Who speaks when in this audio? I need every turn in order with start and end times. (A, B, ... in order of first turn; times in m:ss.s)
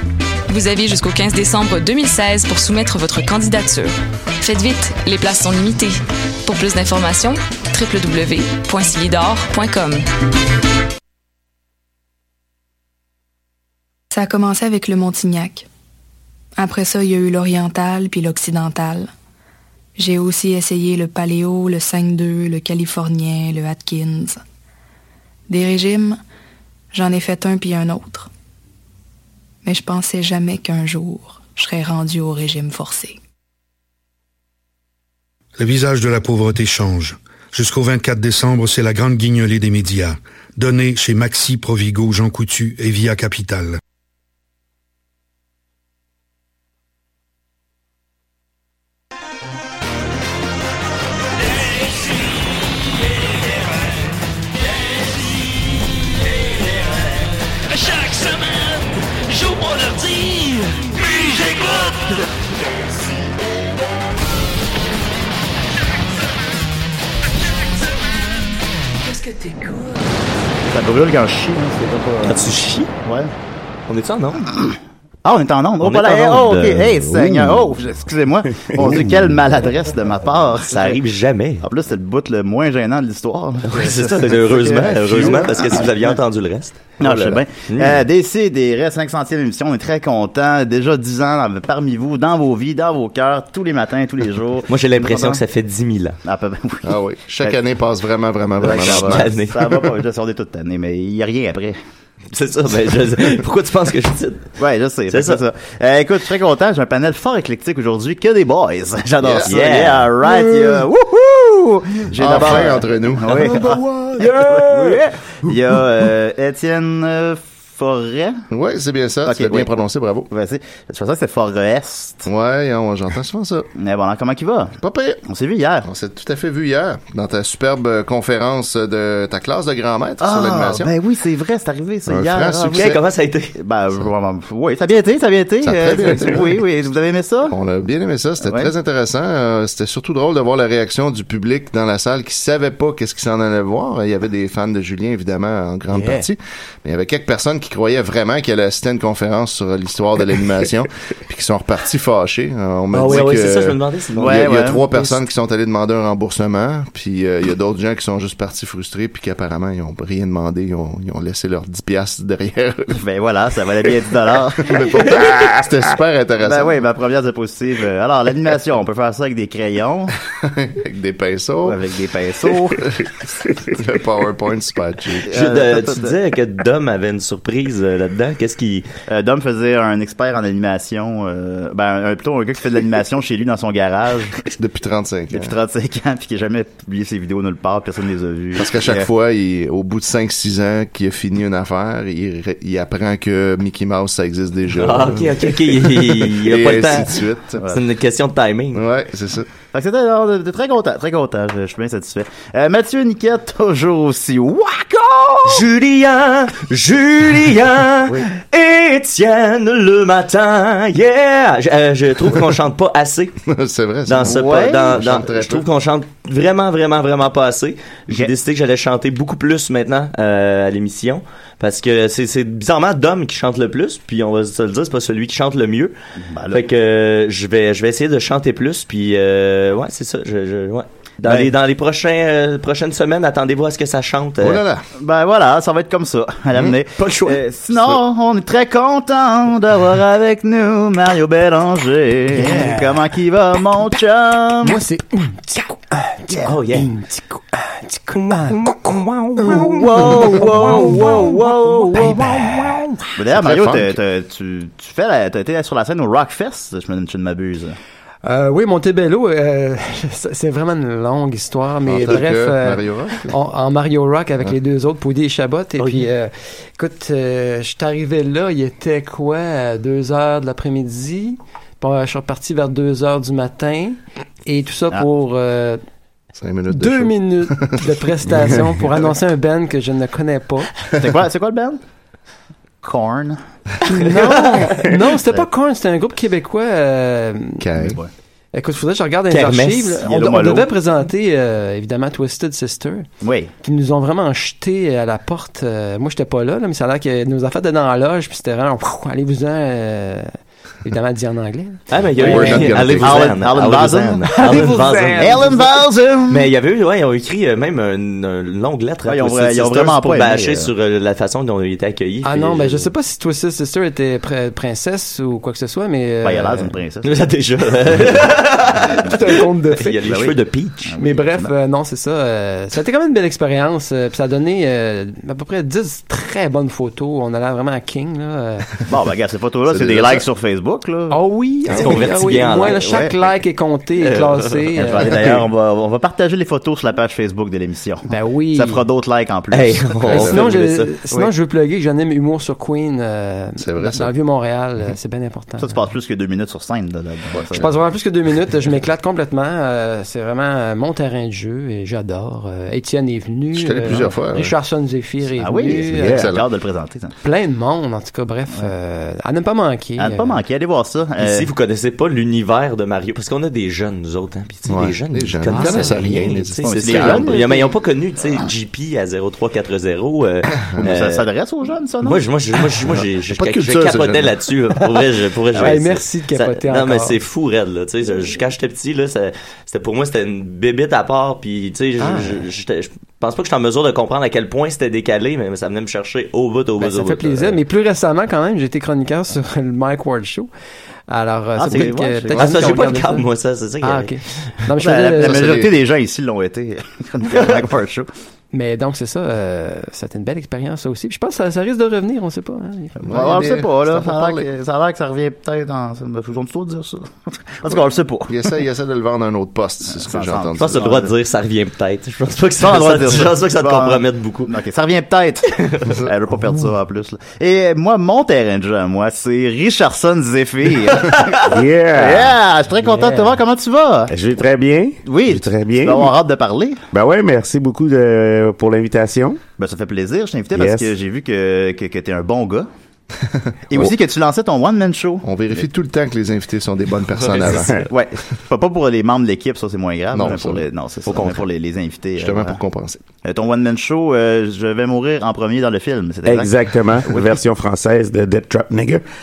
0:00.5-0:10.0 A
0:14.1-0:15.7 B
0:16.6-0:19.1 B
0:20.0-0:24.4 B
0:25.5-0:26.2 B
0:26.9-0:28.3 B
0:29.6-0:33.2 B
0:35.6-0:43.8 C
0:57.7-0:58.6 D
0:59.3-1:01.9 D
1:10.7-1:13.3 E
1:12.2-1:12.9 F
1:13.9-1:14.5 F
1:15.2-1:21.0 E
1:15.8-1:16.9 F
1:17.2-1:17.4 G
1:18.8-1:19.0 G
1:20.7-1:21.7 F
1:21.6-1:26.2 E
1:23.6-1:28.0 F
1:27.0-1:35.4 E
1:34.7-1:36.2 F
1:36.2-1:37.5 E
1:36.8-1:39.3 H
1:38.6-1:41.8 E
1:38.6-1:40.0 F
1:42.3-1:44.5 F
1:44.6-1:58.4 E
1:45.1-1:45.4 F
1:49.2-1:49.6 H
1:49.4-1:50.2 F
1:52.1-1:54.3 H
1:58.5-2:00.3 H
1:59.2-1:59.7 E
2:00.3-2:02.3 E
2:02.2-2:03.7 H
2:03.7-2:04.7 E
2:04.8-2:05.2 H
2:05.2-2:05.9 E
2:05.8-2:10.9 H
2:10.2-2:13.0 E
2:12.1-2:13.0 H
2:12.7-2:13.5 F
2:13.5-2:17.5 E
2:15.6-2:16.6 H
2:17.5-2:43.0 H
2:18.4-2:18.7 E
2:32.9-2:34.5 F
2:34.2-2:34.9 E
2:42.9-2:45.1 E
2:44.6-2:46.7 H
2:46.4-2:50.2 E
2:50.4-2:51.8 H
2:51.6-2:52.8 E
2:52.6-2:55.5 H
2:55.2-2:56.1 E
2:55.3-2:58.9 F
2:59.1-3:04.4 E
3:04.6-3:05.6 H
3:05.3-3:09.1 E
3:08.6-3:17.6 H
3:14.7-3:18.8 F
3:18.7-3:19.5 H
3:19.7-3:25.6 E
3:25.4-3:33.4 F
3:33.4-3:35.6 H
3:34.1-3:45.9 F
3:34.2-3:35.0 E
3:46.2-3:46.6 E
3:46.5-3:54.6 F
3:51.2-3:51.5 E
3:54.4-3:54.8 H
3:55.0-4:04.8 E
3:57.0-3:57.4 F
4:02.3-4:03.0 I
4:04.6-4:13.2 I
4:06.4-4:06.9 F
4:09.4-4:12.6 E
4:13.2-4:17.8 E
4:13.3-4:14.0 H
4:18.2-4:35.8 I
4:21.9-4:23.4 H
4:36.3-4:37.8 H
4:36.7-4:40.7 I
4:40.9-4:41.8 E
4:42.8-4:43.4 E
4:43.8-4:47.6 I
4:44.4-4:44.6 F
4:47.6-4:48.0 H
4:47.8-4:48.1 E
4:48.5-4:53.1 I
4:49.3-4:50.0 F
4:50.0-4:50.7 E
4:53.2-4:53.5 E
4:53.6-5:00.3 I
5:00.8-5:02.9 I
5:01.9-5:05.6 F
5:02.2-5:03.3 H
5:03.0-5:04.4 E
5:04.3-5:05.8 I
5:05.2-5:06.5 E
5:06.3-5:12.9 F
5:09.0-5:10.7 E
5:12.2-5:16.7 I
5:16.2-5:17.2 E
5:17.0-5:19.1 F
5:18.9-5:20.0 I
5:19.7-5:20.9 F
5:20.0-5:21.5 E
5:21.0-5:28.7 I
5:28.9-5:31.2 E
5:29.7-5:30.2 H
5:31.1-5:35.2 I
5:31.7-5:32.9 F
5:32.8-5:33.1 E
5:34.0-5:35.3 F
5:34.8-5:40.2 E
5:38.1-5:38.8 I
5:39.5-5:41.0 F
5:40.1-5:40.4 H
5:40.1-5:45.8 I
5:43.6-5:44.1 H
5:45.6-5:47.7 E
5:47.5-5:56.3 I
5:53.5-5:54.5 H
5:55.4-5:57.1 E
5:55.9-5:56.4 H
5:57.2-6:00.4 I
6:00.0-6:01.5 E
6:01.2-6:11.3 F
6:04.7-6:07.3 H
6:05.5-6:05.9 I
6:06.6-6:07.7 E
6:10.8-6:12.2 E
6:12.0-6:27.6 F
6:13.3-6:14.4 H
6:15.5-6:15.8 E
6:15.6-6:17.2 I
6:22.0-6:22.3 I
6:26.8-6:30.5 I
6:31.1-6:33.2 I
6:31.5-6:32.7 E
6:32.3-6:34.1 F
6:33.8-6:35.6 I
6:34.8-6:38.1 E
6:35.2-6:35.7 H
6:37.3-6:37.6 F
6:38.5-6:43.1 I
6:43.0-6:44.4 H
6:43.0-6:48.4 E
6:48.3-6:50.8 H
6:49.9-6:51.1 E
6:50.6-6:54.5 F
6:52.6-7:04.1 E
6:55.6-6:56.0 F
7:01.4-7:02.4 G
7:02.8-7:03.3 I
7:04.1-7:06.1 G
7:05.0-7:06.8 E
7:06.9-7:09.4 G
7:09.6-7:12.7 E
7:10.5-7:10.9 G
7:13.7-7:15.3 E
7:15.2-7:17.8 H
7:17.3-7:17.8 F
7:17.8-7:22.6 E
7:20.1-7:20.6 H
7:21.0-7:21.4 F
7:22.2-7:23.0 H
7:23.2-7:27.3 E
7:26.2-7:29.0 G